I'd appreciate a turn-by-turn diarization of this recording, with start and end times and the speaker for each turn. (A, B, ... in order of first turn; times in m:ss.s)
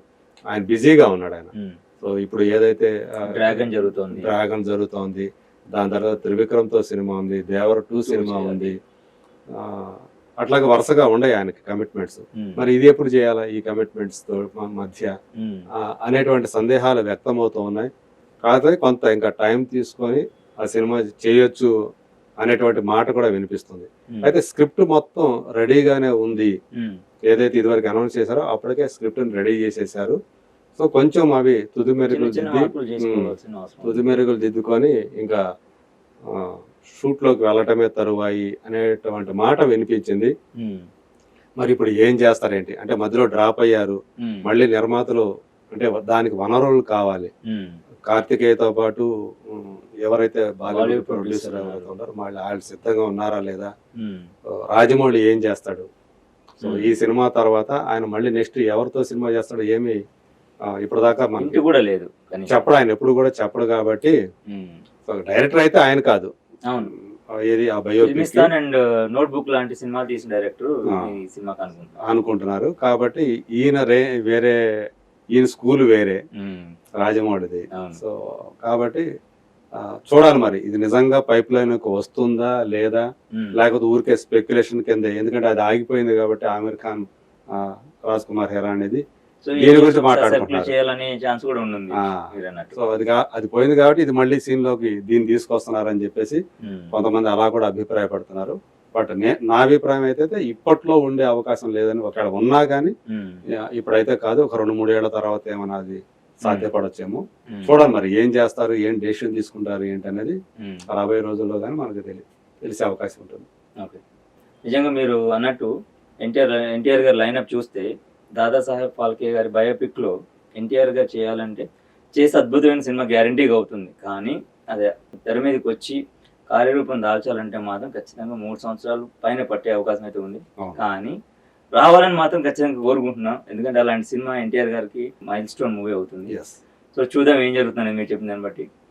0:00.5-0:08.7 A
0:03.3-0:04.3 B
0:08.1-0:08.7 B
0:09.5-0:15.1 A
0:12.4-0:12.6 B
0:15.4-0:15.7 B
0:16.0-0:17.9 A
0:18.4-0:21.7 A
0:22.4-0:26.5 A
0:26.8-0:27.0 B
0:27.3-0:30.2 A
0:30.8-0:33.3 A
0:32.1-0:34.1 B
0:33.8-0:35.4 A
0:36.3-0:40.3 A
0:40.6-0:40.9 B
0:41.6-0:47.3 A
0:47.5-0:47.8 B
0:48.1-0:53.7 A
0:50.7-0:51.9 B
0:54.0-0:54.3 B
0:54.7-0:55.9 A
0:56.6-1:00.0 A
0:56.6-0:56.9 B
1:00.8-1:01.6 A
1:01.4-1:02.7 B
1:02.5-1:04.2 A
1:04.5-1:04.8 B
1:05.1-1:06.3 A
1:07.4-1:08.5 A
1:08.0-1:11.9 B
1:12.0-1:14.6 A
1:15.4-1:16.2 A
1:16.4-1:16.8 B
1:17.0-1:19.0 A
1:17.7-1:18.0 B
1:19.8-1:23.0 A
1:23.6-1:29.0 A
1:29.4-1:32.8 B
1:29.6-1:30.7 A
1:32.0-1:36.4 A
1:36.6-1:36.9 B
1:36.9-1:43.0 A
1:43.1-1:43.4 B
1:43.7-1:50.4 A
1:50.6-1:50.9 B
1:50.9-1:53.5 A
1:54.7-1:55.7 B
1:56.2-2:11.2 B
2:11.8-2:16.3 B
2:16.3-2:16.6 A
2:16.9-2:18.7 B